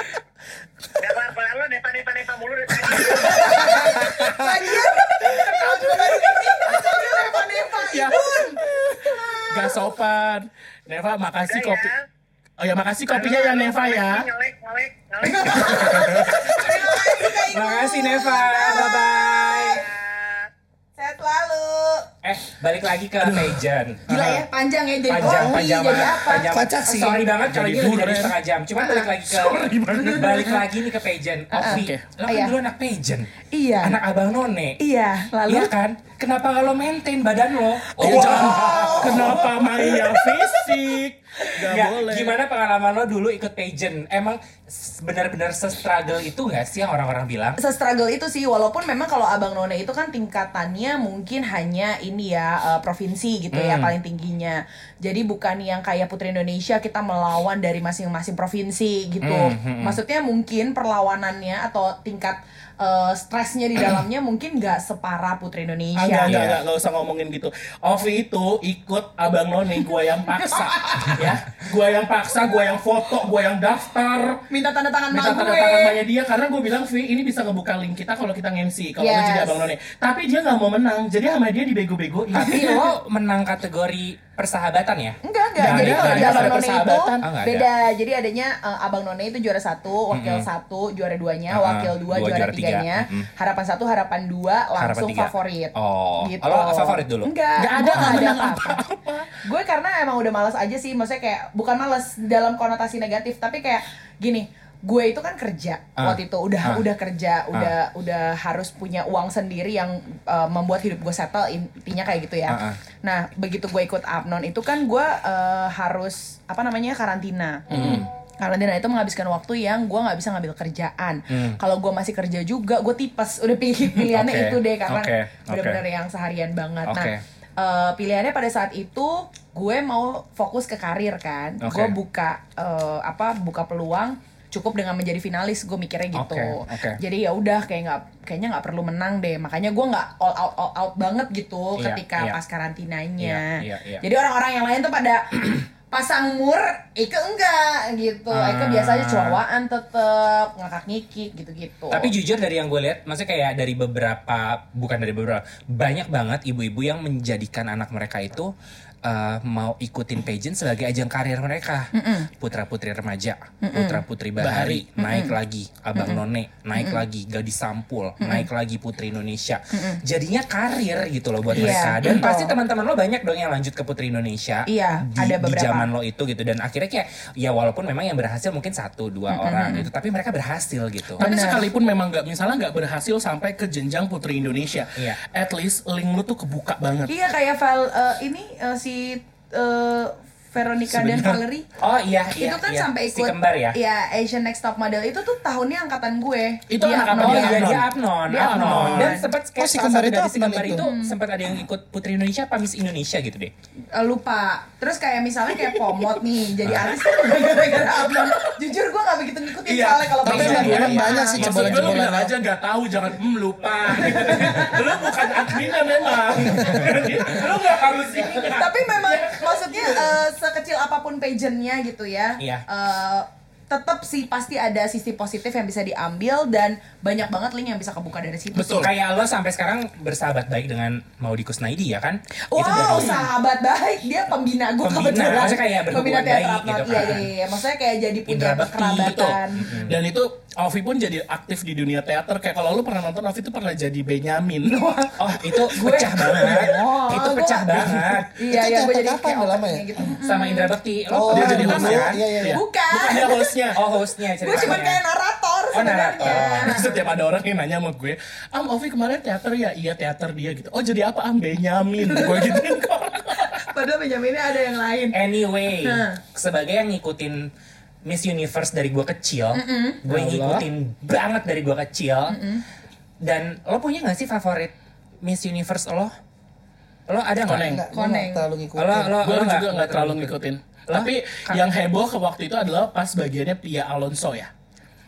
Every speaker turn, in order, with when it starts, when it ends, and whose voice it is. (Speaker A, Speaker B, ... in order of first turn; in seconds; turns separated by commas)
Speaker A: 1.0-4.0, Speaker B: 3.2-9.8, Speaker C: 4.1-4.7, Speaker D: 5.2-6.2, Speaker D: 7.7-8.5, Speaker D: 9.3-11.9, Speaker A: 11.4-12.0, Speaker D: 12.6-14.3, Speaker A: 13.1-16.7, Speaker B: 15.2-19.8, Speaker E: 15.9-16.4, Speaker E: 17.4-19.8, Speaker A: 19.7-20.5, Speaker B: 21.0-22.1, Speaker E: 22.2-24.1, Speaker B: 24.1-27.2, Speaker D: 24.1-24.4, Speaker E: 25.1-33.3, Speaker C: 25.2-26.0, Speaker C: 26.5-27.2, Speaker D: 27.4-28.4, Speaker B: 28.8-29.1, Speaker D: 29.2-30.4, Speaker B: 29.9-30.6, Speaker B: 31.5-32.6, Speaker D: 31.6-32.0, Speaker B: 33.5-34.0, Speaker E: 33.8-34.8, Speaker B: 34.8-35.7, Speaker E: 35.5-39.4, Speaker B: 37.9-39.0, Speaker D: 38.0-42.4, Speaker C: 38.5-39.5, Speaker B: 39.8-40.4, Speaker E: 41.6-47.6, Speaker B: 47.6-66.4, Speaker E: 53.5-53.9, Speaker E: 59.2-60.0, Speaker D: 66.0-74.4, Speaker E: 66.2-66.6, Speaker B: 70.3-71.2, Speaker B: 74.5-76.0, Speaker D: 75.1-82.7, Speaker B: 79.0-79.6, Speaker E: 82.3-87.7, Speaker B: 82.5-82.9, Speaker B: 85.2-98.8, Speaker D: 85.6-87.3, Speaker E: 90.1-90.5, Speaker E: 91.5-93.3, Speaker E: 94.8-97.3, Speaker D: 97.6-99.3, Speaker E: 97.9-98.3, Speaker B: 99.4-152.1, Speaker E: 106.0-106.8, Speaker E: 112.5-112.8, Speaker D: 117.7-118.1, Speaker E: 117.7-118.0, Speaker E: 121.3-121.6, Speaker E: 124.0-125.8, Speaker E: 126.8-127.2, Speaker E: 131.6-132.0, Speaker E: 136.1-137.0, Speaker E: 141.8-142.4, Speaker E: 143.2-144.1, Speaker E: 148.3-149.4, Speaker E: 151.9-158.5, Speaker E: 159.1-181.2, Speaker B: 161.9-162.3, Speaker B: 163.6-164.0, Speaker D: 164.4-164.8, Speaker B: 165.0-165.4, Speaker B: 165.9-166.2, Speaker B: 166.7-167.0, Speaker B: 168.2-168.5, Speaker B: 169.7-170.0, Speaker D: 171.5-172.3, Speaker B: 171.5-172.5, Speaker B: 174.7-175.9, Speaker B: 179.3-179.9, Speaker D: 181.2-187.2, Speaker B: 181.2-181.7, Speaker B: 187.1-191.7, Speaker D: 190.9-191.4, Speaker E: 191.8-193.8, Speaker B: 192.4-199.3, Speaker D: 196.7-199.2, Speaker E: 197.2-203.5, Speaker C: 199.6-200.8, Speaker B: 200.8-201.2, Speaker B: 203.9-211.7, Speaker D: 205.6-206.0, Speaker E: 206.6-206.9, Speaker D: 207.3-208.4, Speaker D: 209.7-220.1, Speaker C: 210.2-212.3, Speaker E: 210.3-212.0, Speaker B: 214.0-215.1, Speaker E: 216.5-218.8, Speaker B: 218.3-228.9, Speaker E: 222.4-222.6, Speaker D: 228.5-228.9, Speaker E: 228.8-233.3, Speaker B: 232.5-239.9, Speaker E: 234.8-237.3, Speaker E: 238.3-240.0, Speaker D: 239.0-245.2, Speaker B: 244.8-250.8, Speaker E: 245.2-248.4, Speaker C: 248.4-250.1, Speaker E: 250.1-252.2, Speaker C: 251.1-252.6, Speaker D: 251.3-253.8, Speaker B: 252.5-253.6, Speaker E: 253.7-255.0, Speaker B: 254.4-257.2, Speaker D: 254.5-254.8, Speaker E: 255.7-256.9, Speaker D: 256.2-263.6, Speaker B: 262.0-262.7, Speaker B: 263.3-265.2, Speaker E: 265.1-267.5, Speaker B: 265.8-266.2, Speaker E: 268.1-272.4, Speaker B: 269.5-270.0, Speaker D: 270.1-270.7, Speaker B: 272.3-272.6, Speaker E: 273.2-276.1, Speaker E: 277.1-277.7, Speaker D: 277.5-277.8, Speaker C: 277.6-279.2, Speaker B: 277.9-278.4, Speaker E: 278.8-280.4, Speaker D: 279.2-284.5, Speaker E: 280.9-281.6